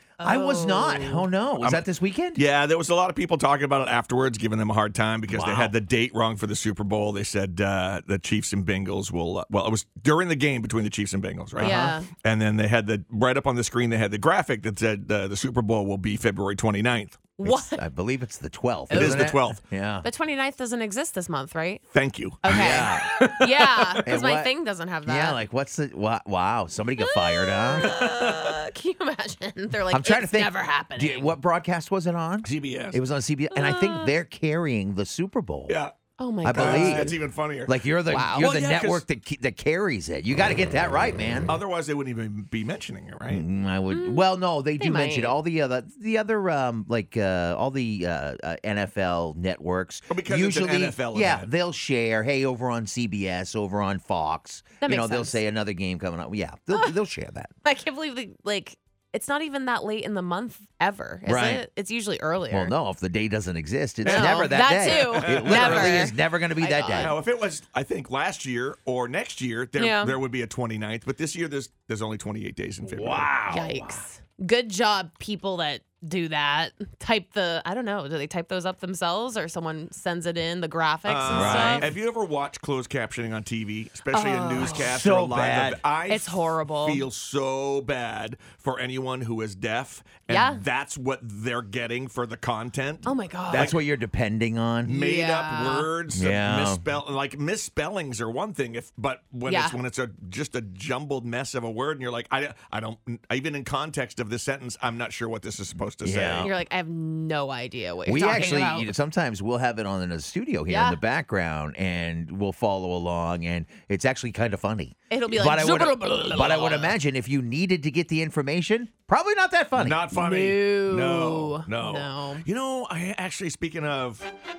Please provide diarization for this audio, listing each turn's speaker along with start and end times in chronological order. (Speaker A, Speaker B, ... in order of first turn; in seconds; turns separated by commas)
Speaker A: 0.2-1.3, Speaker B: 0.2-2.4, Speaker C: 1.6-1.8, Speaker C: 2.3-17.3, Speaker B: 5.3-5.7, Speaker B: 11.6-12.0, Speaker A: 11.6-12.1, Speaker A: 17.4-17.8, Speaker B: 17.4-20.1, Speaker A: 18.9-19.5, Speaker C: 18.9-19.6, Speaker A: 20.0-21.8, Speaker C: 21.9-24.0, Speaker A: 22.4-25.4, Speaker B: 22.5-23.2, Speaker B: 24.0-24.5, Speaker B: 25.0-27.9, Speaker A: 27.0-31.3, Speaker C: 28.0-28.5, Speaker B: 29.9-35.8, Speaker C: 32.4-33.0, Speaker A: 33.5-34.1, Speaker C: 35.7-35.9, Speaker A: 36.2-37.1, Speaker B: 36.4-41.5, Speaker C: 36.5-39.0, Speaker A: 38.1-38.5, Speaker C: 41.5-43.4, Speaker B: 43.3-57.5, Speaker A: 43.9-45.4, Speaker C: 50.1-51.5, Speaker A: 54.8-55.4, Speaker A: 56.7-57.0, Speaker A: 57.6-62.8, Speaker B: 61.2-61.6, Speaker B: 62.5-67.2, Speaker C: 64.0-66.1, Speaker A: 64.0-67.2, Speaker C: 66.8-73.3, Speaker A: 69.8-70.2, Speaker B: 72.8-74.0, Speaker A: 73.5-81.9, Speaker C: 81.0-93.8, Speaker B: 81.3-81.9, Speaker A: 84.1-84.9, Speaker B: 84.6-85.8, Speaker A: 86.1-87.0, Speaker A: 90.3-90.6, Speaker A: 93.0-93.8, Speaker B: 93.5-94.9, Speaker C: 94.8-106.5, Speaker A: 94.9-95.9, Speaker B: 96.1-96.8, Speaker A: 99.5-99.8, Speaker B: 106.0-106.5, Speaker A: 106.4-108.9, Speaker B: 108.0-120.1, Speaker A: 110.7-111.0, Speaker A: 115.1-117.0, Speaker C: 119.7-124.3, Speaker A: 120.1-122.4